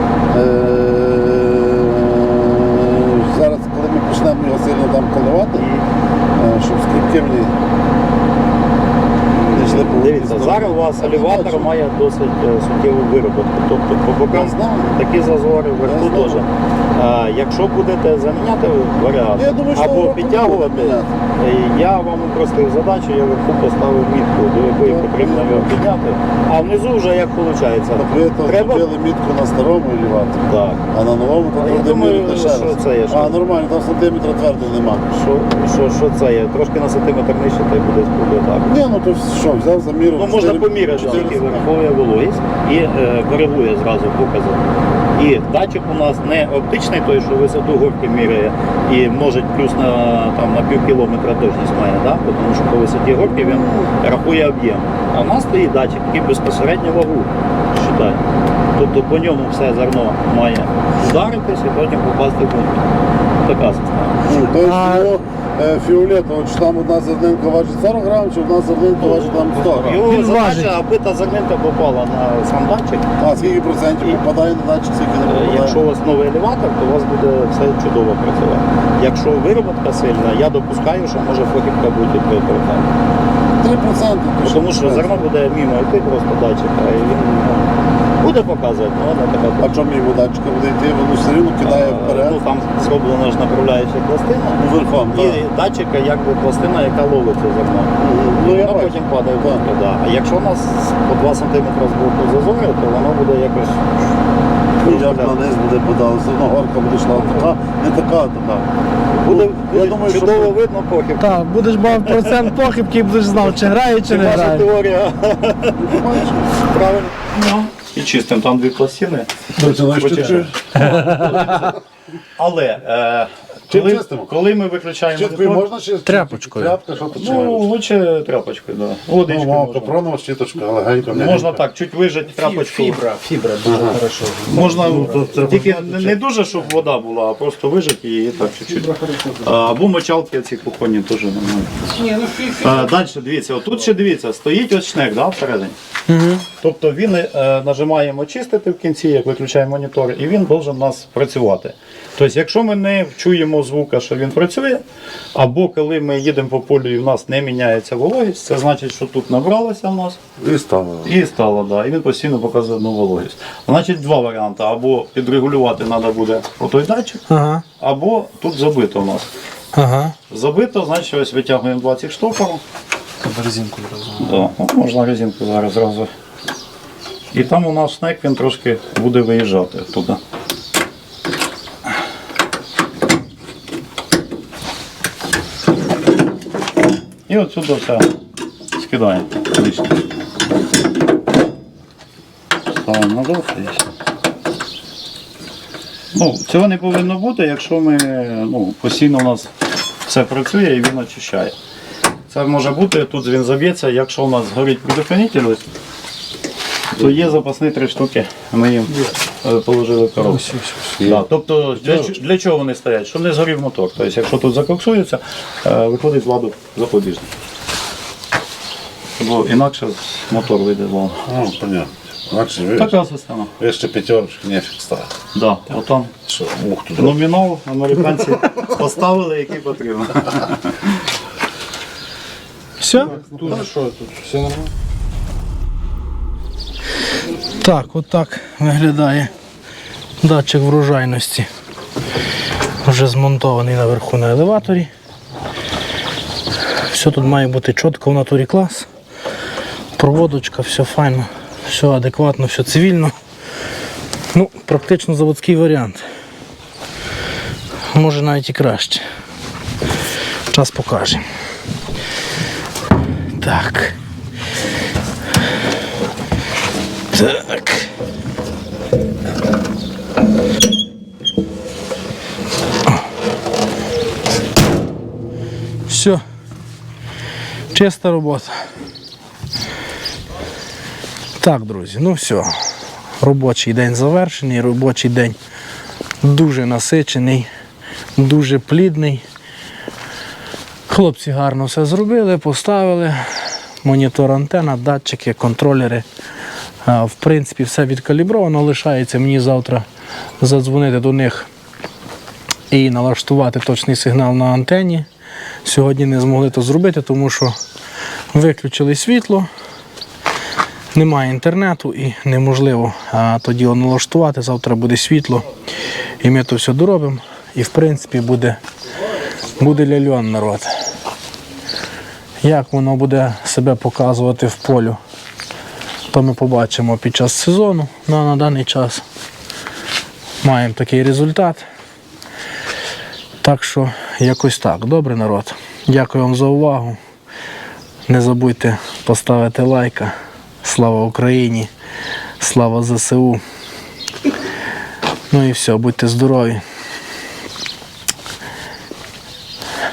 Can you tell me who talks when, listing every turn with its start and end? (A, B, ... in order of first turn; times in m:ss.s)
0:00.3-0:05.7 A
0:05.6-0:05.8 B
0:06.4-0:07.5 A
0:09.4-0:28.9 B
0:09.5-0:11.7 A
0:14.3-0:15.0 A
0:15.8-0:16.4 A
0:19.4-0:21.1 A
0:24.8-0:25.8 A
0:28.0-0:35.1 A
0:30.5-0:30.8 B
0:31.6-0:33.4 B
0:35.1-0:38.8 B
0:38.6-0:41.6 A
0:40.2-0:44.6 B
0:45.2-0:58.2 B
0:53.4-0:53.9 A
0:58.8-1:02.9 B
1:03.4-1:04.2 B
1:04.2-1:10.0 A
1:04.6-1:05.1 C
1:09.0-1:13.2 B
1:10.0-1:10.7 C
1:13.2-1:15.8 A
1:15.2-1:22.9 B
1:23.6-1:25.3 A
1:24.4-1:27.7 B
1:28.2-1:29.7 B
1:29.6-1:32.4 A
1:31.6-1:34.6 B
1:34.6-1:35.4 A
1:35.1-1:43.8 B
1:38.0-1:39.6 A
1:44.8-1:45.4 B
1:44.8-1:48.7 A
1:49.1-1:51.3 B
1:49.3-1:50.5 A
1:51.2-1:54.7 C
1:51.9-1:52.5 B
1:54.1-2:01.7 B
1:55.8-1:56.6 A
1:59.6-2:01.7 A
2:00.8-2:01.7 C
2:02.4-2:05.7 B
2:03.7-2:04.3 A
2:05.1-2:07.7 A
2:06.1-2:06.8 C
2:07.1-2:09.9 B
2:09.2-2:11.6 A
2:11.1-2:13.0 B
2:12.3-2:16.1 D
2:13.6-2:14.0 A
2:14.5-2:21.8 B
2:14.6-2:16.1 A
2:18.7-2:19.5 D
2:21.9-2:22.9 D
2:22.6-2:25.7 B
2:26.1-2:26.4 C
2:26.6-2:34.8 B
2:35.4-2:40.2 B
2:40.4-2:41.1 A
2:41.0-2:47.2 B
2:47.3-2:47.6 C
2:47.8-2:49.3 B
2:49.7-2:50.2 C
2:50.3-2:52.6 B
2:53.2-2:54.4 D
2:54.2-2:56.1 B
2:57.3-3:00.2 B
3:07.3-3:08.1 B
3:08.8-3:10.0 B
3:12.8-3:13.8 B
3:16.1-3:19.5 B
3:20.1-3:21.6 B
3:22.3-3:25.6 B
3:26.9-3:37.3 B
3:30.2-3:30.9 D
3:30.9-3:31.2 A
3:31.8-3:32.1 A
3:39.2-3:41.2 B
3:41.2-3:43.0 A
3:42.8-3:43.5 B
3:43.6-3:45.1 A
3:45.3-3:46.1 B
3:46.3-3:47.2 A
3:47.0-3:51.0 B
3:52.8-3:53.2 C
3:53.0-3:54.6 D
3:53.0-3:53.8 A
3:57.6-3:59.3 C
4:00.2-4:01.5 C
4:02.8-4:04.9 C
4:06.8-4:08.9 C
4:10.0-4:13.1 C
4:14.3-4:16.0 C
4:17.9-4:19.0 C
4:20.5-4:21.2 C
4:23.4-4:24.0 C
4:27.1-4:27.9 C
4:35.9-4:36.2 C
4:37.7-4:38.6 C
4:41.4-4:42.6 C
4:43.2-4:45.4 C
4:46.2-4:47.5 C
4:48.2-4:49.2 C
4:50.9-4:56.0 C
4:56.8-4:59.9 C
5:00.4-5:01.5 C
5:02.7-5:05.1 C
5:05.6-5:07.6 C
5:08.3-5:09.5 C
5:10.9-5:15.4 C
5:16.2-5:18.6 C
5:19.6-5:20.7 C
5:22.4-5:25.0 C
5:26.1-5:29.0 C
5:30.4-5:31.6 C
5:33.4-5:37.0 C
5:38.1-5:41.7 C
5:42.4-5:43.4 C
5:45.3-5:46.6 C